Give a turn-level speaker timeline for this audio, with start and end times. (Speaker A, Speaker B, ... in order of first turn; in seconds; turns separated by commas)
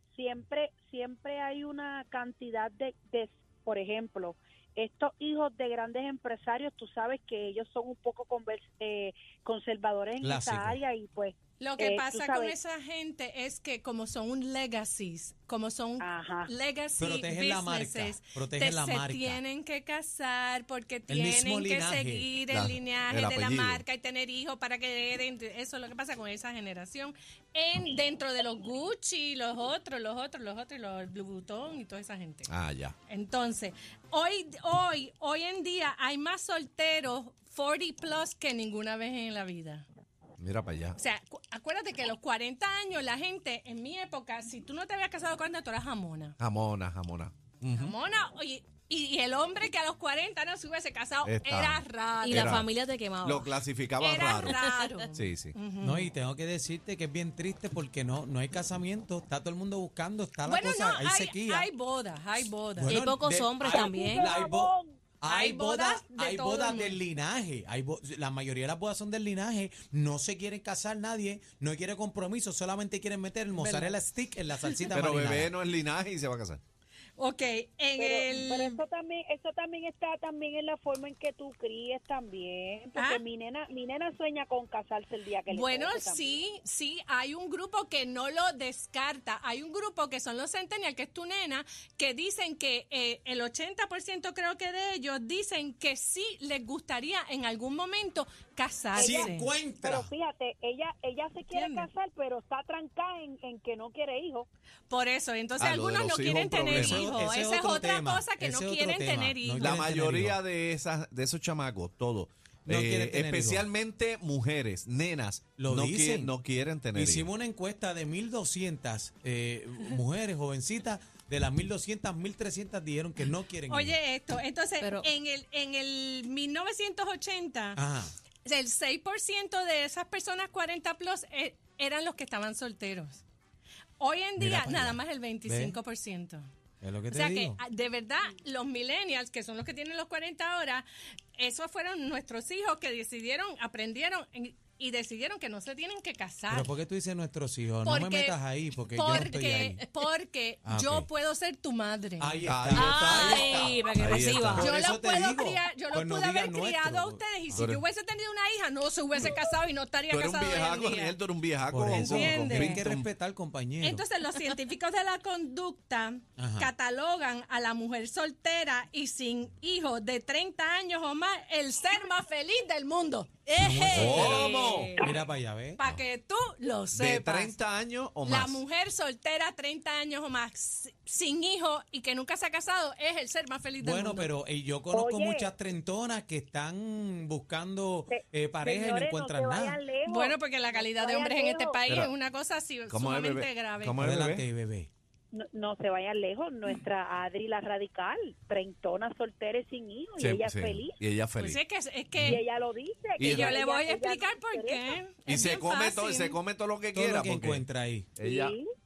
Speaker A: 0.1-12.5, Speaker B: 10.2-10.8, Speaker C: 11.6-32.5, Speaker A: 16.0-16.5, Speaker B: 17.0-19.4, Speaker B: 21.1-22.3, Speaker D: 22.5-23.8, Speaker D: 32.5-32.9, Speaker C: 33.1-39.8, Speaker D: 40.4-41.0, Speaker C: 41.0-46.4, Speaker D: 46.4-47.9, Speaker C: 47.7-52.6, Speaker D: 51.2-52.7, Speaker E: 52.3-53.5, Speaker D: 53.2-54.6, Speaker C: 54.0-56.1, Speaker D: 55.1-55.5, Speaker B: 55.8-61.7, Speaker C: 60.4-63.1, Speaker B: 62.8-75.5, Speaker E: 62.9-64.3, Speaker A: 63.6-64.9, Speaker C: 65.3-67.0, Speaker C: 73.6-74.0, Speaker D: 74.9-76.6, Speaker C: 77.2-78.8, Speaker A: 78.0-86.3, Speaker C: 83.0-83.2, Speaker C: 85.5-99.5, Speaker A: 98.9-104.5, Speaker B: 99.0-100.1, Speaker C: 101.5-101.9, Speaker C: 104.9-109.8, Speaker D: 105.6-107.0, Speaker B: 106.7-110.4, Speaker D: 109.6-117.3, Speaker B: 112.7-113.7, Speaker B: 115.6-116.3, Speaker B: 116.9-124.0, Speaker C: 123.7-127.8, Speaker B: 127.8-128.1, Speaker C: 128.4-133.2, Speaker C: 134.0-136.4, Speaker B: 134.4-135.8, Speaker B: 136.8-137.6, Speaker C: 137.1-146.7, Speaker B: 146.5-149.8, Speaker C: 147.8-152.4, Speaker B: 150.7-151.1, Speaker B: 152.2-153.9, Speaker D: 152.4-154.7, Speaker E: 152.7-154.5, Speaker B: 154.5-157.7, Speaker C: 154.6-161.2, Speaker D: 157.5-157.8, Speaker D: 160.1-163.1, Speaker B: 161.7-164.0, Speaker C: 161.9-162.8, Speaker C: 163.8-175.1, Speaker B: 166.4-166.7, Speaker B: 173.5-175.8, Speaker D: 173.9-174.9, Speaker C: 175.8-177.5, Speaker D: 176.9-178.6, Speaker C: 178.2-184.3, Speaker B: 183.8-189.8, Speaker A: 184.9-185.5, Speaker A: 188.1-191.8, Speaker C: 190.0-194.0, Speaker D: 191.9-192.1, Speaker D: 192.9-194.5, Speaker B: 194.0-194.9, Speaker A: 195.3-201.0, Speaker D: 200.2-201.6, Speaker C: 201.4-202.4, Speaker A: 202.2-205.0, Speaker D: 203.2-203.6, Speaker C: 203.2-206.4, Speaker D: 205.2-207.6, Speaker B: 206.9-208.1, Speaker D: 208.2-208.6, Speaker A: 208.2-208.7